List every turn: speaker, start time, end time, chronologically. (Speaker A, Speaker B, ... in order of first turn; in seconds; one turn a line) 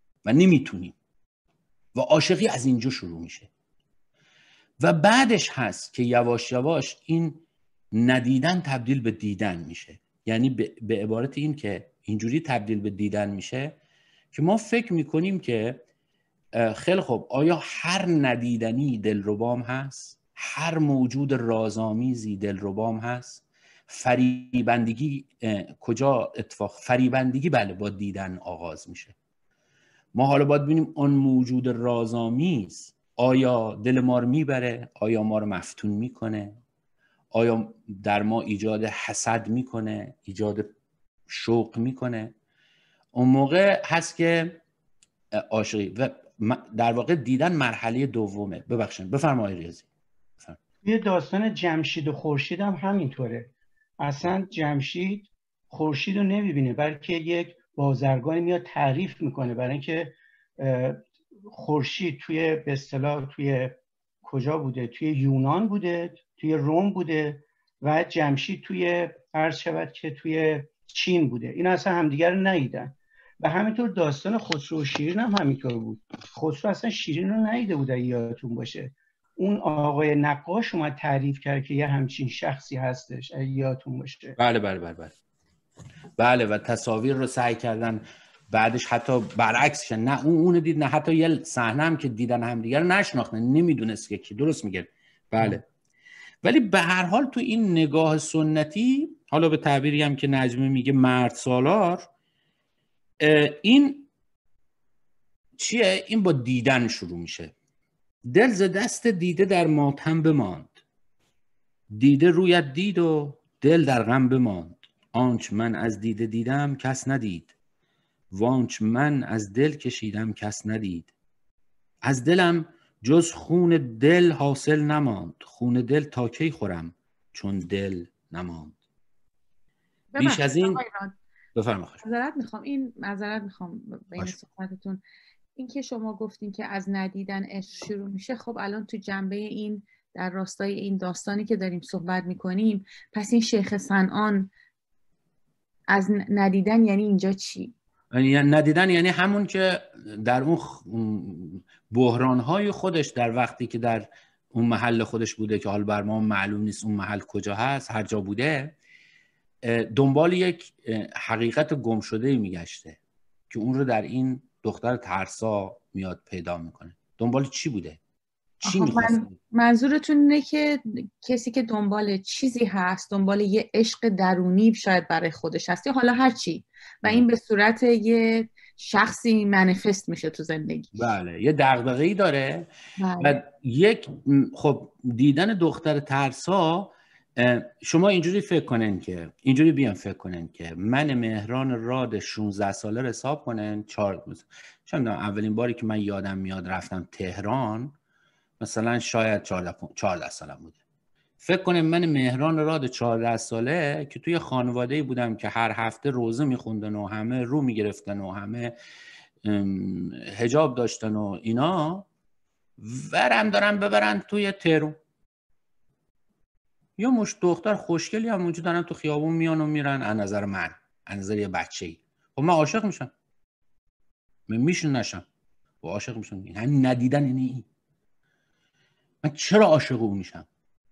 Speaker A: 0.3-1.0
Speaker A: 1.9-3.5
Speaker A: 4.8-13.8
Speaker A: 14.3-15.8
Speaker A: 16.6-29.1
Speaker A: 30.1-36.6
Speaker A: 37.3-40.7
Speaker A: 41.3-42.3
Speaker A: 43.1-44.6
Speaker A: 45.5-49.9
Speaker B: 50.8-84.4
Speaker A: 84.4-85.1
Speaker A: 86.2-95.7
Speaker A: 96.4-102.1
Speaker A: 103.2-104.1
Speaker A: 105.6-107.5
Speaker A: 108.3-110.8
Speaker A: 111.9-117.5
Speaker A: 118.3-121.1
Speaker A: 122.0-128.8
Speaker C: 130.1-131.2
Speaker A: 130.2-130.8
Speaker A: 131.6-132.0
Speaker C: 132.0-135.0
Speaker C: 135.6-144.5
Speaker C: 145.9-147.7
Speaker A: 148.1-158.8
Speaker A: 159.6-163.0
Speaker A: 163.5-168.0
Speaker A: 168.6-169.3
Speaker C: 168.6-180.9
Speaker A: 180.9-182.7
Speaker C: 183.0-183.4
Speaker A: 183.2-197.9
Speaker A: 198.6-200.8
Speaker A: 201.4-208.7
Speaker A: 209.4-212.1
Speaker A: 212.8-215.0
Speaker A: 217.0-223.1
Speaker A: 224.5-225.3
Speaker A: 225.8-227.7
Speaker A: 229.2-230.5